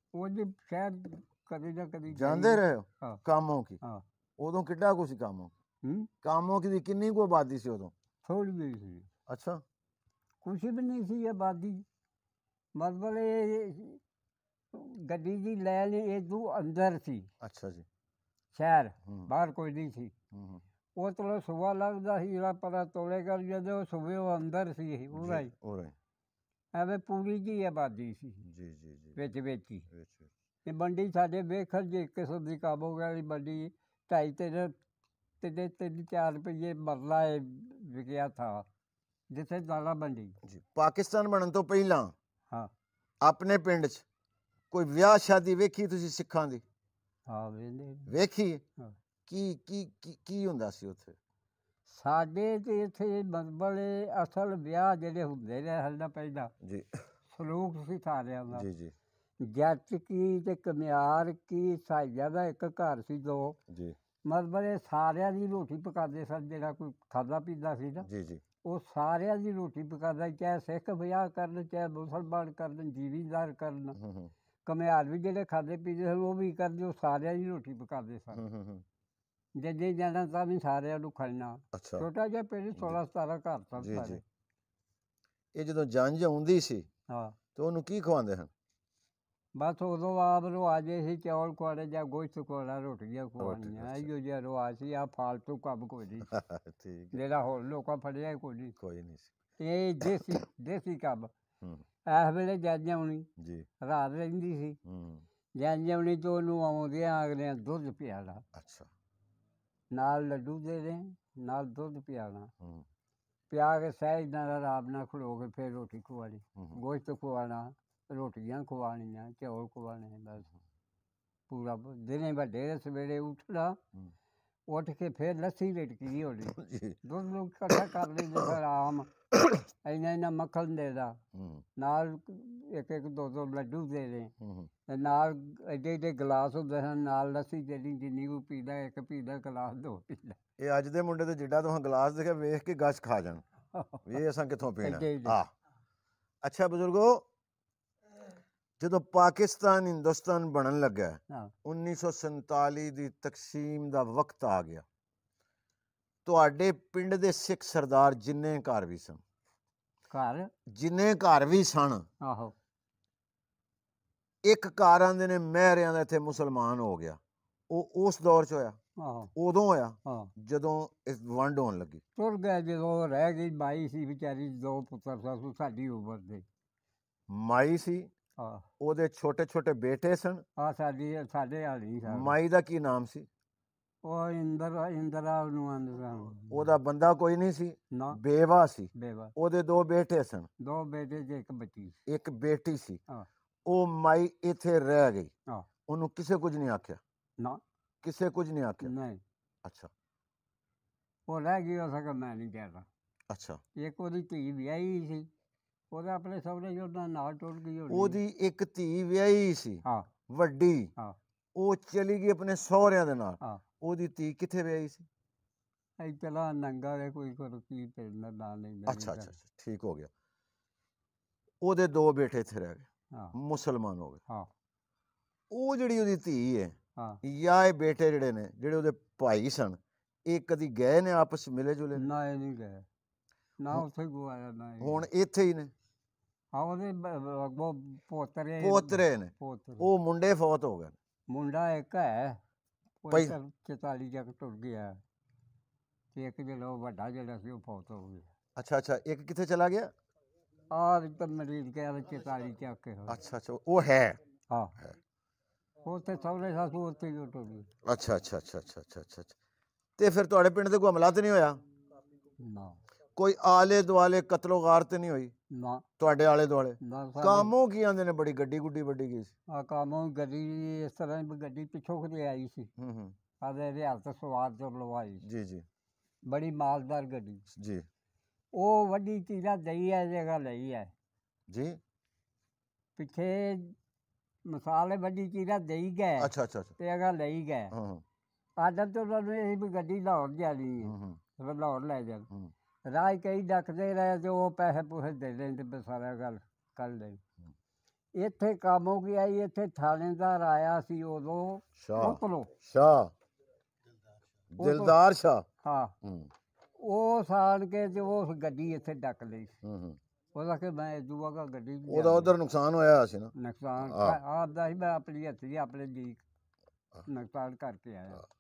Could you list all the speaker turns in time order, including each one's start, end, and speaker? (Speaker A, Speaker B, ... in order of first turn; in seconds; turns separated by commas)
Speaker A: 0.1-3.2, Speaker B: 2.1-3.8, Speaker B: 4.4-5.5, Speaker A: 5.8-6.1, Speaker B: 6.2-7.9, Speaker A: 8.2-9.1, Speaker B: 9.3-9.6, Speaker A: 10.4-11.8, Speaker A: 12.8-14.0, Speaker A: 14.7-17.3, Speaker B: 17.4-17.9, Speaker A: 18.5-20.1, Speaker B: 20.3-20.6, Speaker A: 21.0-25.5, Speaker B: 25.1-25.9, Speaker A: 26.7-28.5, Speaker B: 28.4-29.2, Speaker A: 29.2-29.9, Speaker B: 29.9-30.3, Speaker A: 30.6-34.7, Speaker A: 35.4-38.7, Speaker A: 39.3-40.4, Speaker B: 40.4-42.1, Speaker B: 43.2-44.0, Speaker B: 44.7-46.6, Speaker A: 47.3-48.1, Speaker B: 48.1-48.6, Speaker B: 49.3-51.2, Speaker A: 51.9-56.5, Speaker B: 56.6-57.0, Speaker A: 57.3-58.7, Speaker B: 58.5-59.0, Speaker A: 59.4-63.6, Speaker B: 63.7-64.0, Speaker A: 64.2-68.1, Speaker B: 68.0-68.4, Speaker A: 68.7-74.0, Speaker B: 74.0-74.3, Speaker A: 74.7-78.4, Speaker B: 78.3-78.8, Speaker A: 79.6-84.2, Speaker B: 81.7-82.1, Speaker B: 83.8-84.2, Speaker B: 85.5-86.9, Speaker A: 87.1-87.4, Speaker B: 87.5-88.5, Speaker A: 89.5-96.3, Speaker B: 93.4-94.1, Speaker B: 96.3-97.2, Speaker A: 97.1-98.8, Speaker B: 98.8-99.3, Speaker A: 99.6-101.3, Speaker A: 102.1-103.3, Speaker B: 103.4-103.7, Speaker A: 103.8-104.8, Speaker B: 104.8-105.2, Speaker A: 105.6-108.4, Speaker B: 108.5-108.9, Speaker A: 109.9-112.5, Speaker B: 112.6-112.9, Speaker A: 113.5-120.5, Speaker A: 121.5-123.8, Speaker A: 124.7-129.1, Speaker B: 126.5-127.0, Speaker B: 127.7-128.6, Speaker B: 129.3-129.7, Speaker A: 129.8-131.2, Speaker B: 131.3-131.6, Speaker A: 131.8-134.3, Speaker B: 134.4-134.7, Speaker A: 134.9-140.4, Speaker B: 140.6-143.4, Speaker A: 143.7-144.0, Speaker B: 144.1-145.5, Speaker A: 144.8-145.4, Speaker B: 146.4-147.3, Speaker B: 148.8-154.9, Speaker B: 156.2-159.2, Speaker A: 160.1-160.5, Speaker B: 160.7-162.1, Speaker A: 162.2-162.6, Speaker B: 164.4-168.8, Speaker A: 169.0-169.3, Speaker B: 169.3-172.0, Speaker A: 172.2-176.4, Speaker B: 177.3-178.1, Speaker A: 178.4-178.7, Speaker B: 178.8-180.4, Speaker A: 180.6-182.4, Speaker B: 182.1-183.3, Speaker A: 184.0-186.7, Speaker B: 186.5-190.5, Speaker A: 187.9-188.2, Speaker A: 188.9-189.3, Speaker A: 190.6-192.0, Speaker B: 192.1-193.0, Speaker B: 193.7-195.3, Speaker B: 195.9-197.0, Speaker B: 198.0-198.9, Speaker A: 198.8-199.2, Speaker B: 199.6-199.9, Speaker A: 201.3-202.9, Speaker B: 203.3-203.6, Speaker A: 203.8-205.3, Speaker A: 205.9-208.2, Speaker B: 207.9-210.9, Speaker B: 211.6-215.1, Speaker A: 216.0-219.3, Speaker B: 218.9-220.1, Speaker B: 221.6-224.2, Speaker B: 225.5-232.1, Speaker A: 232.0-232.9, Speaker A: 233.6-235.0, Speaker B: 234.8-235.7, Speaker A: 236.5-239.9, Speaker B: 238.6-240.9, Speaker A: 241.3-242.4, Speaker A: 243.0-245.0, Speaker B: 243.1-243.4, Speaker A: 246.1-248.3, Speaker B: 248.6-249.9, Speaker A: 250.7-253.2, Speaker B: 253.1-254.2, Speaker A: 254.5-254.8, Speaker A: 255.8-257.7, Speaker B: 257.9-259.4, Speaker B: 260.0-261.6, Speaker A: 262.4-262.8, Speaker B: 263.2-265.4, Speaker A: 265.5-265.9, Speaker B: 266.0-269.3, Speaker A: 266.8-267.5, Speaker A: 269.5-272.7, Speaker B: 272.8-273.2, Speaker A: 273.4-275.2, Speaker B: 275.2-275.7, Speaker A: 276.3-277.4, Speaker B: 277.5-277.9, Speaker A: 278.5-280.9, Speaker B: 281.5-281.8, Speaker A: 283.0-283.8, Speaker A: 284.5-287.7, Speaker B: 286.2-286.8, Speaker B: 287.7-288.0, Speaker A: 288.6-292.3, Speaker B: 290.8-291.2, Speaker A: 292.9-297.2, Speaker A: 298.1-302.5, Speaker B: 301.8-303.1, Speaker B: 304.5-305.5, Speaker A: 304.6-305.0, Speaker A: 305.6-305.9, Speaker B: 306.0-306.3, Speaker A: 306.8-309.6, Speaker B: 309.6-310.0, Speaker A: 310.3-312.4, Speaker B: 311.9-314.2, Speaker A: 313.4-316.2, Speaker A: 317.1-318.2